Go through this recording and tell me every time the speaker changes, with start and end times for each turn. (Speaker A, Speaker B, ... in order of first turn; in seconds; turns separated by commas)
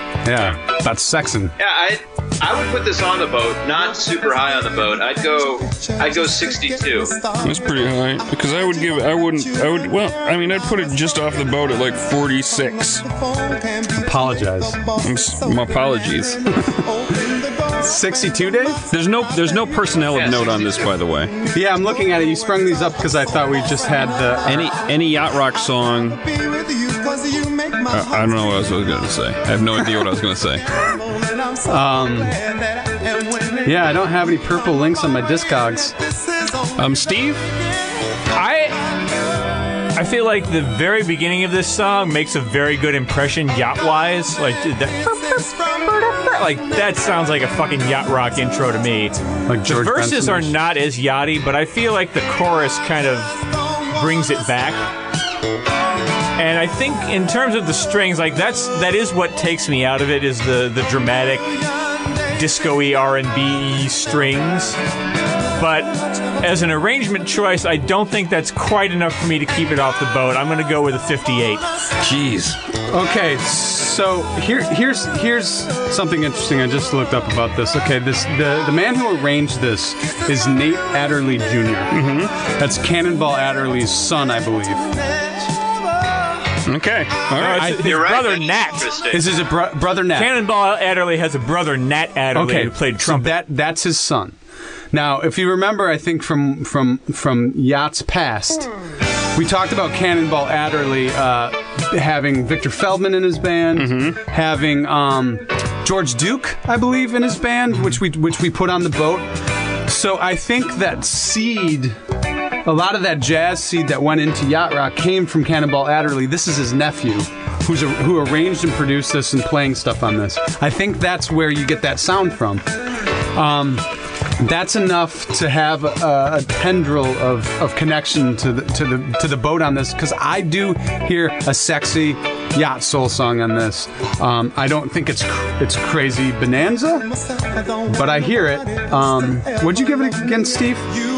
Speaker A: 0.2-1.5, Speaker B: 1.6-7.3, Speaker C: 7.4-13.1, Speaker A: 13.9-14.8, Speaker C: 15.0-16.5, Speaker A: 16.7-17.2, Speaker A: 17.7-18.8, Speaker C: 18.9-21.4, Speaker B: 20.1-20.9, Speaker A: 21.5-24.7, Speaker C: 24.4-26.2, Speaker C: 27.9-30.7, Speaker A: 31.7-32.4, Speaker A: 33.6-36.0, Speaker C: 36.8-37.4, Speaker D: 38.3-38.9, Speaker D: 40.0-54.8, Speaker A: 49.5-50.5, Speaker D: 56.4-61.6, Speaker D: 62.3-64.8, Speaker D: 65.5-71.7, Speaker C: 72.0-72.6, Speaker A: 72.9-85.2, Speaker C: 81.9-82.3, Speaker C: 86.7-87.8, Speaker D: 87.3-88.9, Speaker A: 87.5-87.9, Speaker B: 87.8-89.4, Speaker A: 89.1-90.3, Speaker D: 90.1-93.3, Speaker A: 92.3-94.4, Speaker A: 94.9-98.7, Speaker A: 99.3-109.3, Speaker C: 103.7-104.2, Speaker A: 109.8-112.0, Speaker A: 112.7-137.1, Speaker A: 137.8-140.9